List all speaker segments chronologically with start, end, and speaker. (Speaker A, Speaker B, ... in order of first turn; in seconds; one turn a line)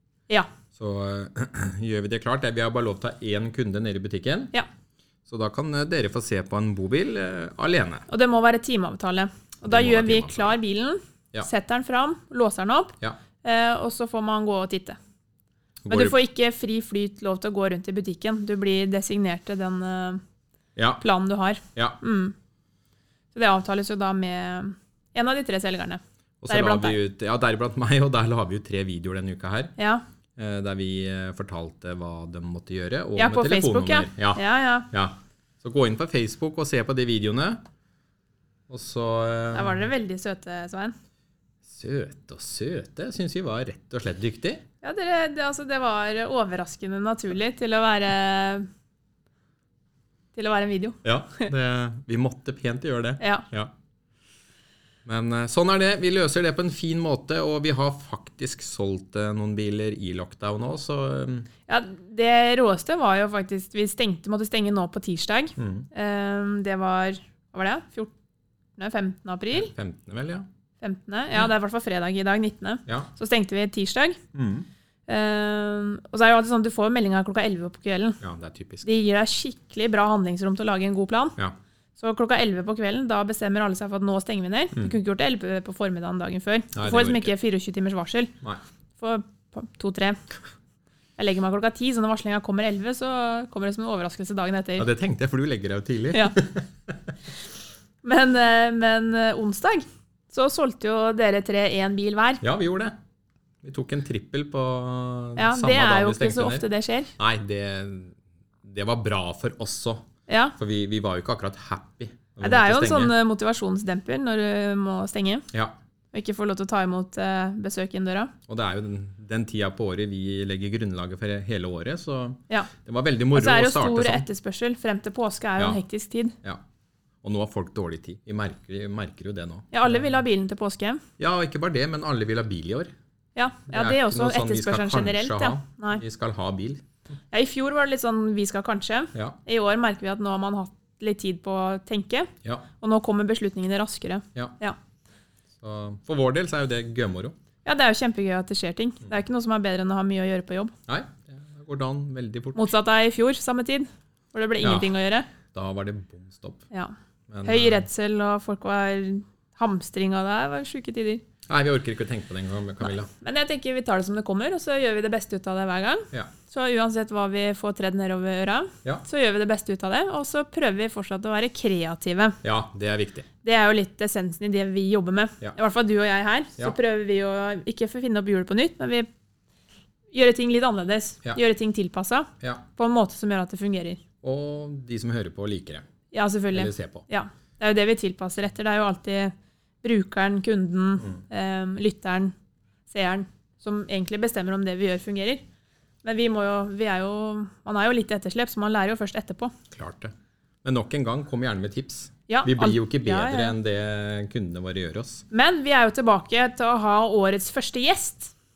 Speaker A: 0.8-4.5
Speaker A: 5.3-8.1
Speaker B: 8.1-15.0
Speaker A: 9.7-10.6
Speaker A: 15.8-16.2
Speaker B: 15.9-20.2
Speaker B: 21.0-22.3
Speaker B: 23.3-27.0
Speaker A: 26.4-29.8
Speaker B: 29.8-30.0
Speaker A: 30.4-37.6
Speaker B: 33.2-34.9
Speaker A: 38.7-39.8
Speaker B: 39.5-40.9
Speaker A: 41.7-44.6
Speaker B: 44.8-48.7
Speaker B: 50.3-51.4
Speaker A: 51.0-53.7
Speaker A: 55.0-61.5
Speaker B: 61.7-68.1
Speaker A: 65.6-65.9
Speaker B: 68.8-69.7
Speaker A: 69.5-70.5
Speaker B: 70.8-74.2
Speaker A: 74.3-74.7
Speaker B: 75.1-78.2
Speaker A: 78.2-78.9
Speaker B: 78.8-81.4
Speaker B: 82.0-88.3
Speaker A: 86.8-87.3
Speaker B: 89.0-90.2
Speaker B: 91.2-94.9
Speaker A: 94.8-96.9
Speaker B: 98.0-102.4
Speaker A: 102.4-103.0
Speaker A: 103.6-106.7
Speaker B: 105.4-107.1
Speaker A: 107.2-113.1
Speaker B: 110.3-110.5
Speaker B: 112.4-115.5
Speaker B: 116.1-118.3
Speaker A: 118.5-124.2
Speaker B: 123.3-126.4
Speaker A: 127.2-130.0
Speaker B: 129.7-131.0
Speaker A: 131.2-132.9
Speaker B: 133.4-136.0
Speaker A: 133.7-136.8
Speaker B: 137.3-144.8
Speaker A: 145.6-147.3
Speaker B: 147.7-150.7
Speaker A: 150.9-152.7
Speaker B: 152.6-155.3
Speaker A: 154.6-154.9
Speaker A: 155.5-156.6
Speaker A: 157.3-157.9
Speaker B: 157.4-161.2
Speaker A: 161.5-163.1
Speaker B: 163.2-172.4
Speaker A: 172.4-173.3
Speaker B: 173.4-179.1
Speaker B: 180.1-184.0
Speaker A: 184.2-185.8
Speaker B: 186.1-192.3
Speaker A: 186.5-187.1
Speaker B: 192.9-195.4
Speaker B: 196.0-199.5
Speaker A: 199.7-200.1
Speaker A: 200.6-205.2
Speaker B: 202.3-203.5
Speaker B: 205.3-208.3